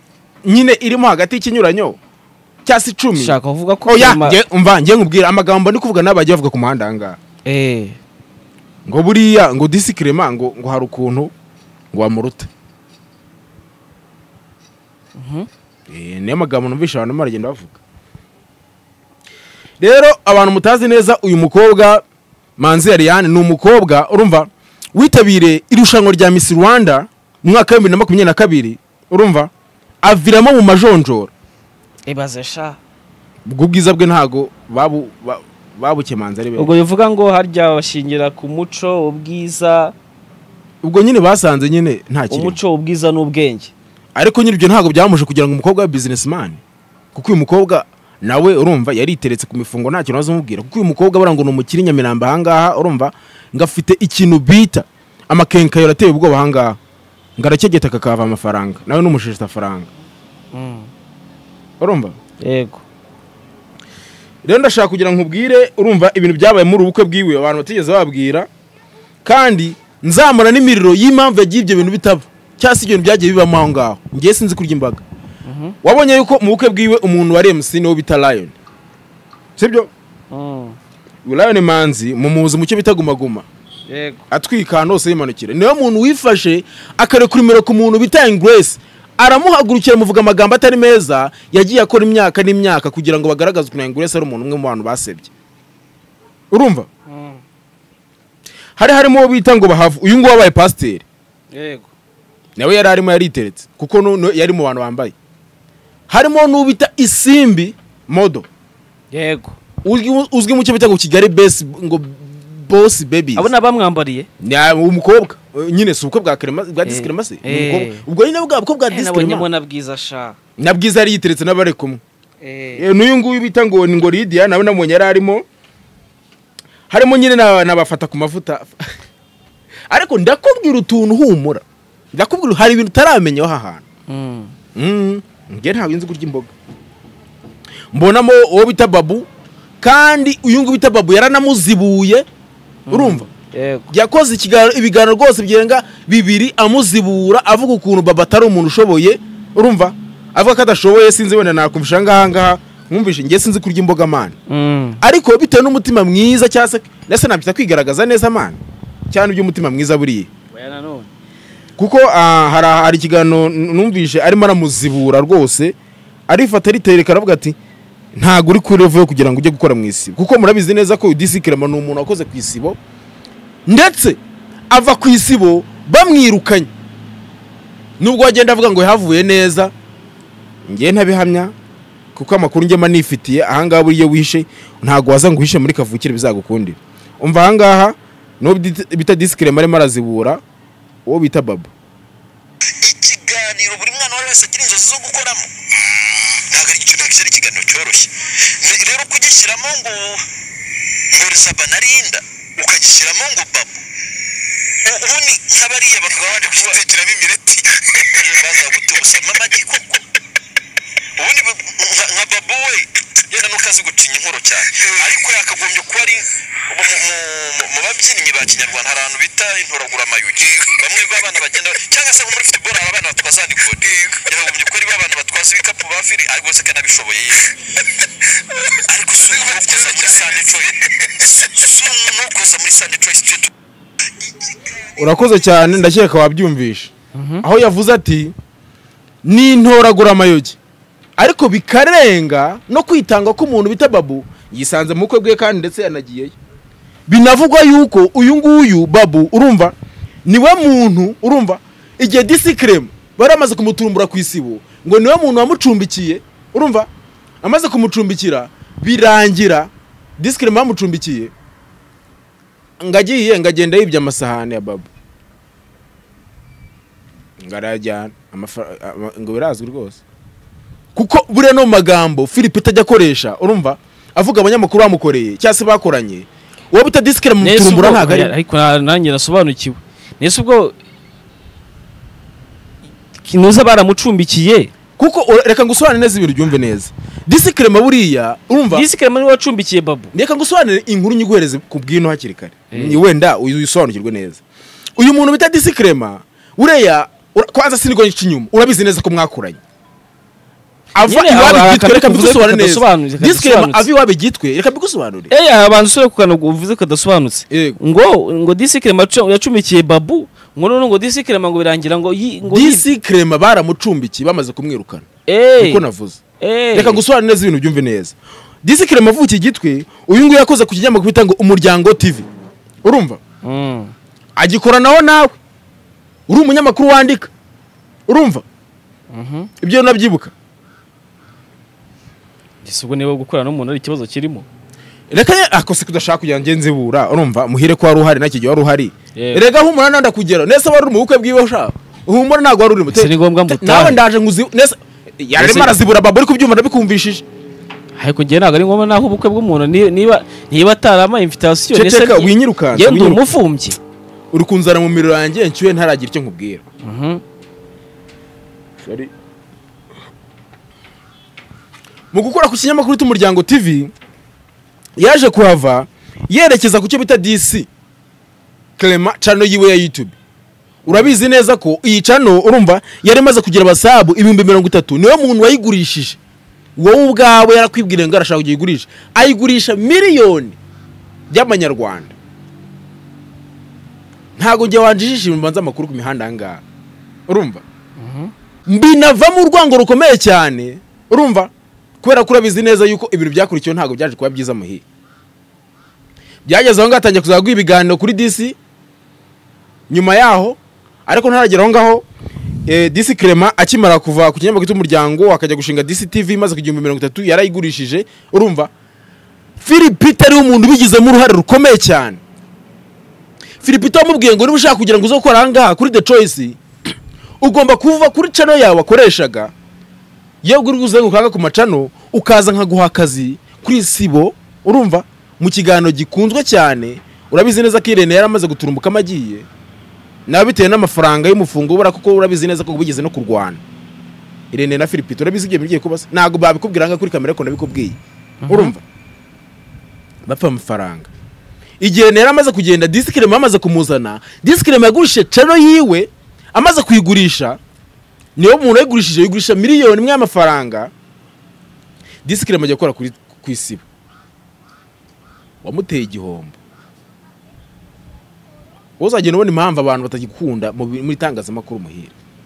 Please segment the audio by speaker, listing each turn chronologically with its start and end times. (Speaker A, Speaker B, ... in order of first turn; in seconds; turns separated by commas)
Speaker A: 0.4-2.0, Speaker A: 2.6-7.2, Speaker B: 3.1-4.4, Speaker B: 7.4-8.0, Speaker A: 8.9-11.3, Speaker A: 11.9-12.5, Speaker B: 15.2-15.5, Speaker A: 15.9-17.8, Speaker A: 19.8-22.0, Speaker A: 22.6-29.5, Speaker A: 30.0-31.3, Speaker B: 32.0-32.8, Speaker A: 33.4-36.7, Speaker B: 36.5-39.9, Speaker A: 40.8-42.6, Speaker B: 42.3-43.7, Speaker A: 44.1-46.6, Speaker A: 47.1-56.8, Speaker A: 57.4-59.9, Speaker B: 60.5-60.9, Speaker A: 61.8-62.1, Speaker B: 62.4-62.8, Speaker A: 64.4-68.5, Speaker A: 69.2-75.0, Speaker B: 75.4-75.8, Speaker A: 75.8-78.5, Speaker A: 79.6-79.9, Speaker B: 80.3-80.8, Speaker A: 81.2-83.5, Speaker B: 83.9-84.2, Speaker A: 84.3-95.3, Speaker A: 96.5-96.9, Speaker B: 97.1-97.4, Speaker A: 98.8-101.0, Speaker B: 101.5-101.9, Speaker A: 102.6-105.1, Speaker A: 106.1-108.5, Speaker B: 109.1-109.6, Speaker A: 109.8-113.5, Speaker B: 113.3-114.3, Speaker A: 114.4-119.5, Speaker B: 116.8-118.0, Speaker B: 118.9-120.4, Speaker A: 120.6-122.0, Speaker B: 122.4-122.9, Speaker A: 122.7-125.4, Speaker A: 126.9-128.8, Speaker A: 129.9-133.8, Speaker B: 134.1-134.5, Speaker A: 134.7-136.5, Speaker A: 137.9-139.2, Speaker A: 139.8-142.2, Speaker B: 142.9-143.9, Speaker A: 142.9-143.2, Speaker A: 143.9-154.4, Speaker B: 154.5-155.0, Speaker A: 155.0-158.6, Speaker A: 159.1-160.3, Speaker B: 160.5-161.1, Speaker A: 161.8-165.7, Speaker A: 166.3-167.6, Speaker A: 168.1-172.8, Speaker A: 173.7-174.2, Speaker A: 174.7-176.7, Speaker A: 178.0-179.7, Speaker A: 180.7-181.5, Speaker A: 182.1-190.4, Speaker A: 191.1-191.7, Speaker C: 192.7-195.5, Speaker C: 196.1-200.2, Speaker C: 201.1-203.8, Speaker C: 204.8-210.0, Speaker C: 211.2-227.6, Speaker C: 228.7-233.5, Speaker A: 235.0-238.3, Speaker B: 237.1-237.4, Speaker A: 239.2-240.6, Speaker A: 241.2-246.3, Speaker A: 247.1-249.7, Speaker A: 250.2-256.9, Speaker A: 257.4-261.3, Speaker A: 262.8-264.9, Speaker A: 267.4-270.0, Speaker A: 270.9-278.3, Speaker B: 277.4-280.7, Speaker B: 283.2-284.7, Speaker A: 285.0-288.9, Speaker B: 288.7-290.1, Speaker A: 290.1-294.4, Speaker B: 292.7-293.0, Speaker A: 295.0-299.6, Speaker A: 300.9-305.3, Speaker B: 301.1-303.9, Speaker B: 305.3-312.8, Speaker A: 307.5-307.8, Speaker A: 312.5-316.2, Speaker B: 315.3-315.8, Speaker B: 316.4-317.0, Speaker A: 316.7-322.3, Speaker A: 322.8-323.2, Speaker B: 323.4-323.9, Speaker A: 324.4-325.4, Speaker A: 326.3-327.3, Speaker A: 328.1-328.4, Speaker B: 329.1-329.5, Speaker A: 329.6-330.3, Speaker B: 332.6-334.4, Speaker A: 335.1-347.2, Speaker B: 339.1-339.4, Speaker B: 342.9-344.0, Speaker B: 345.4-345.8, Speaker B: 347.9-353.8, Speaker A: 351.7-353.2, Speaker A: 354.3-356.6, Speaker B: 356.8-357.2, Speaker A: 358.8-359.1, Speaker A: 362.1-363.9, Speaker A: 365.0-367.7, Speaker A: 368.8-370.1, Speaker A: 370.9-376.2, Speaker B: 370.9-371.1, Speaker A: 376.8-380.6, Speaker A: 381.3-382.1, Speaker A: 384.4-386.6, Speaker A: 387.3-387.6, Speaker B: 388.0-388.3, Speaker A: 388.7-394.8, Speaker A: 396.4-398.6, Speaker A: 399.9-402.0, Speaker A: 402.7-408.7, Speaker A: 409.6-412.2, Speaker A: 413.6-416.6, Speaker A: 417.4-419.5, Speaker A: 420.4-429.5, Speaker A: 430.3-433.6, Speaker A: 434.5-438.8, Speaker B: 438.4-438.8, Speaker A: 440.2-441.1, Speaker A: 441.8-447.6, Speaker A: 448.4-450.9, Speaker A: 452.2-453.8, Speaker A: 455.6-456.6, Speaker A: 459.0-462.1